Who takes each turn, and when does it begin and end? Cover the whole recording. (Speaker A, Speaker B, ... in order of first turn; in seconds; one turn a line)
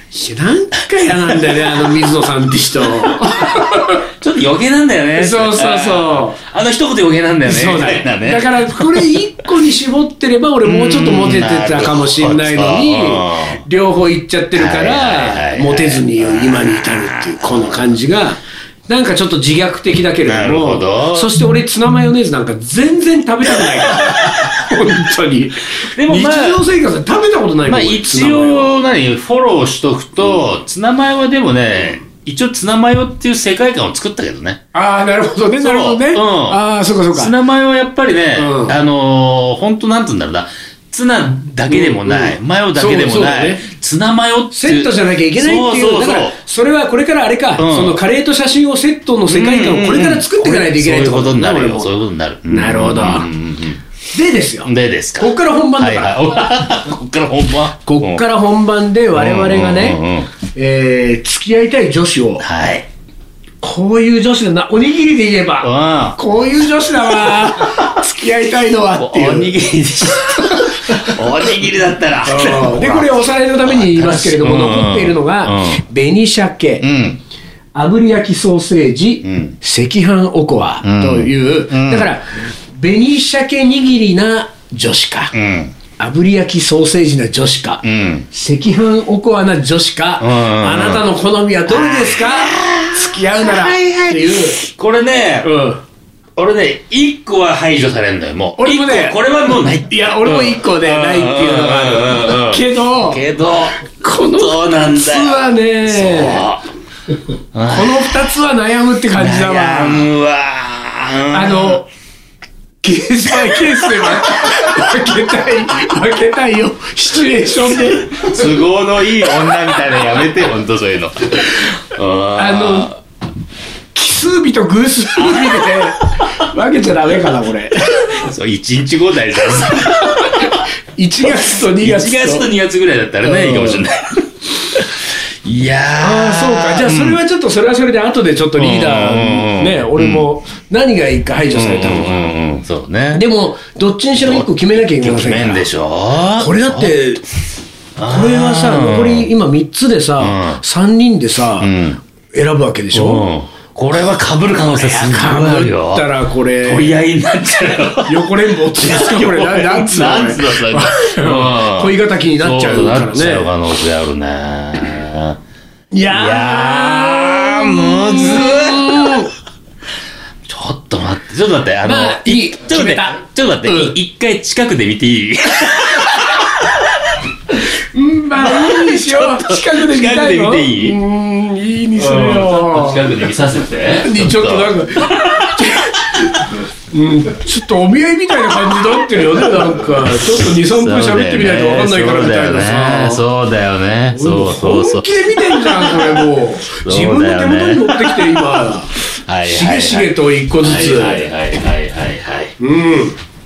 Speaker A: 0.1-4.0
Speaker B: 4.1-9.1
Speaker A: 5.2-6.4
Speaker A: 7.4-28.7
Speaker B: 10.6-13.6
Speaker B: 14.5-17.9
Speaker B: 20.2-21.3
Speaker B: 23.9-24.5
Speaker B: 25.9-26.6
Speaker B: 27.6-34.6
Speaker A: 34.7-37.3
Speaker B: 35.6-36.6
Speaker B: 37.1-46.4
Speaker A: 38.4-38.8
Speaker A: 41.7-43.6
Speaker A: 44.5-52.0
Speaker B: 47.5-48.0
Speaker B: 49.3-53.8
Speaker A: 52.5-53.3
Speaker A: 54.1-56.4
Speaker B: 54.6-58.2
Speaker A: 57.9-60.0
Speaker B: 59.1-60.3
Speaker A: 60.5-62.4
Speaker B: 62.4-62.9
Speaker A: 63.6-69.5
Speaker B: 65.6-66.2
Speaker B: 67.6-67.9
Speaker B: 68.9-75.8
Speaker A: 70.3-71.1
Speaker A: 72.2-76.8
Speaker B: 76.8-77.2
Speaker A: 77.7-85.3
Speaker B: 79.2-79.6
Speaker B: 80.8-82.1
Speaker B: 85.3-85.7
Speaker A: 86.0-94.6
Speaker B: 87.8-88.3
Speaker B: 90.2-91.0
Speaker B: 91.7-95.5
Speaker A: 95.4-95.8
Speaker B: 96.3-106.7
Speaker A: 98.6-99.2
Speaker A: 99.8-103.2
Speaker A: 104.0-106.4
Speaker B: 107.5-108.3
Speaker A: 107.7-110.1
Speaker B: 109.1-111.8
Speaker A: 111.3-111.9
Speaker A: 112.8-118.3
Speaker B: 117.7-122.9
Speaker A: 122.3-123.0
Speaker A: 123.9-128.1
Speaker B: 125.2-125.7
Speaker B: 128.1-130.6
Speaker A: 130.0-132.5
Speaker B: 131.2-137.2
Speaker A: 133.2-133.8
Speaker A: 136.0-142.3
Speaker B: 138.6-140.3
Speaker B: 141.5-143.2
Speaker A: 143.1-145.7
Speaker B: 144.2-146.9
Speaker A: 146.4-147.2
Speaker B: 148.0-149.3
Speaker A: 148.0-151.7
Speaker B: 150.2-150.6
Speaker B: 151.6-152.0
Speaker A: 152.3-153.3
Speaker B: 152.9-165.4
Speaker A: 154.7-157.0
Speaker A: 158.1-163.5
Speaker A: 165.9-169.3
Speaker B: 166.1-169.2
Speaker B: 170.5-176.8
Speaker A: 171.8-173.9
Speaker A: 177.9-183.1
Speaker B: 178.3-181.0
Speaker B: 182.0-185.5
Speaker A: 184.0-193.2
Speaker B: 189.6-202.5
Speaker A: 194.1-201.3
Speaker A: 202.6-203.2